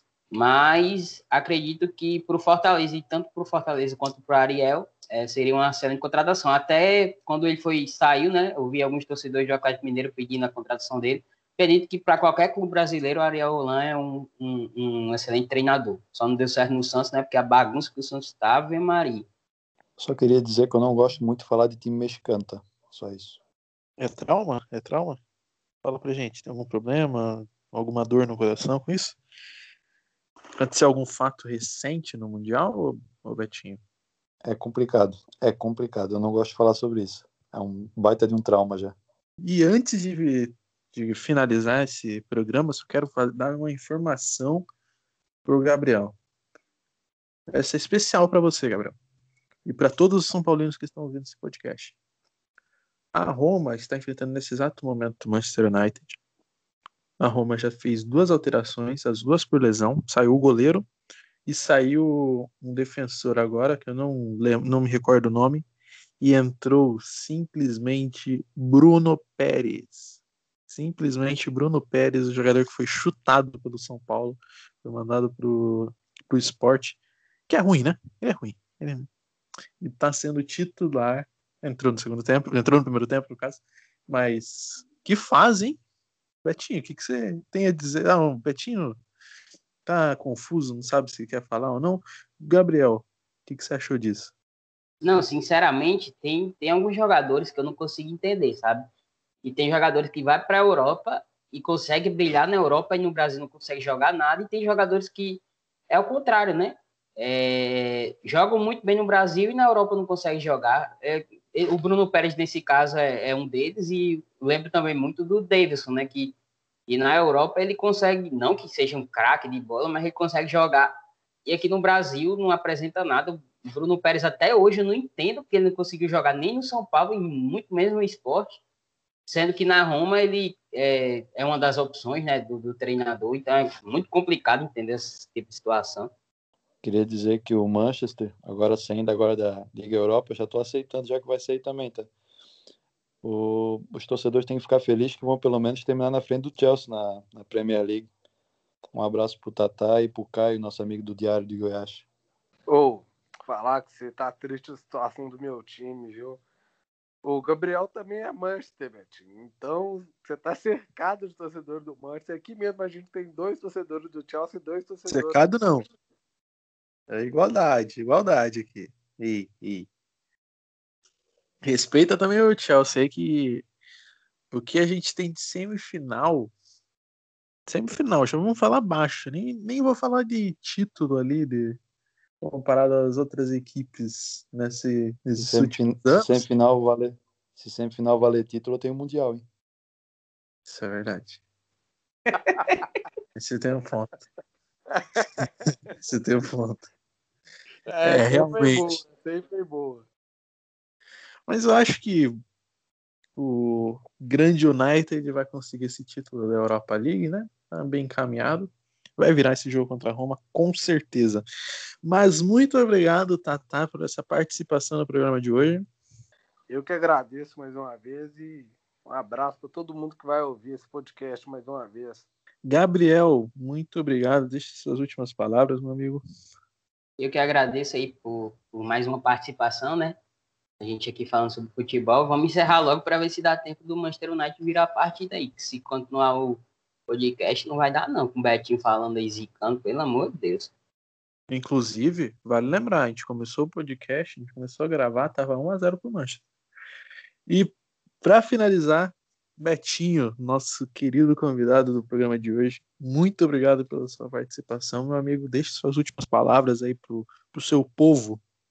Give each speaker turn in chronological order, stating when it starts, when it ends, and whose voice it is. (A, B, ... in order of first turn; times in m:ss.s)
0:00.3-0:19.3 A
0:20.0-0:23.4 B
0:24.0-0:25.2 C
0:25.8-0:29.2 C
0:30.6-0:33.8 C
0:34.4-0:39.0 B
0:39.4-0:44.6 C
0:45.4-0:46.2 C
0:47.5-0:49.0 C
0:49.6-0:52.0 C
0:53.1-0:56.2 C
0:57.2-1:00.9 C
1:01.5-1:05.6 C
1:06.2-1:17.0 C
1:17.5-1:19.1 C
1:19.8-1:25.8 C
1:26.4-1:29.0 C
1:29.9-1:34.3 C
1:35.0-1:38.9 A
1:39.4-1:56.3 A
1:56.9-2:00.9 A
2:01.5-2:08.6 A
2:09.3-2:16.1 A
2:16.8-2:22.1 B
2:23.2-2:28.1 B
2:28.9-2:32.1 B
2:32.7-2:36.4 D
2:37.2-2:45.5 D
2:45.1-2:45.8 C
2:47.1-2:49.9 C
2:51.6-2:53.6 C
2:54.5-2:56.5 C
2:57.7-3:01.8 C
3:02.4-3:06.4 C
3:05.4-3:09.4 B
3:10.6-3:11.4 C
3:12.5-3:12.8 C
3:12.5-3:12.8 D
3:13.4-3:14.1 C
3:14.9-3:15.5 D
3:15.4-3:16.9 C
3:17.9-3:20.1 D
3:18.0-3:19.0 C
3:21.5-3:22.4 C
3:23.4-3:31.4 C
3:32.0-3:35.8 C
3:36.7-3:42.2 D
3:42.6-3:46.2 C
3:47.2-3:50.2 A
3:50.8-4:00.7 A
4:01.5-4:06.4 C
4:07.5-4:18.4 C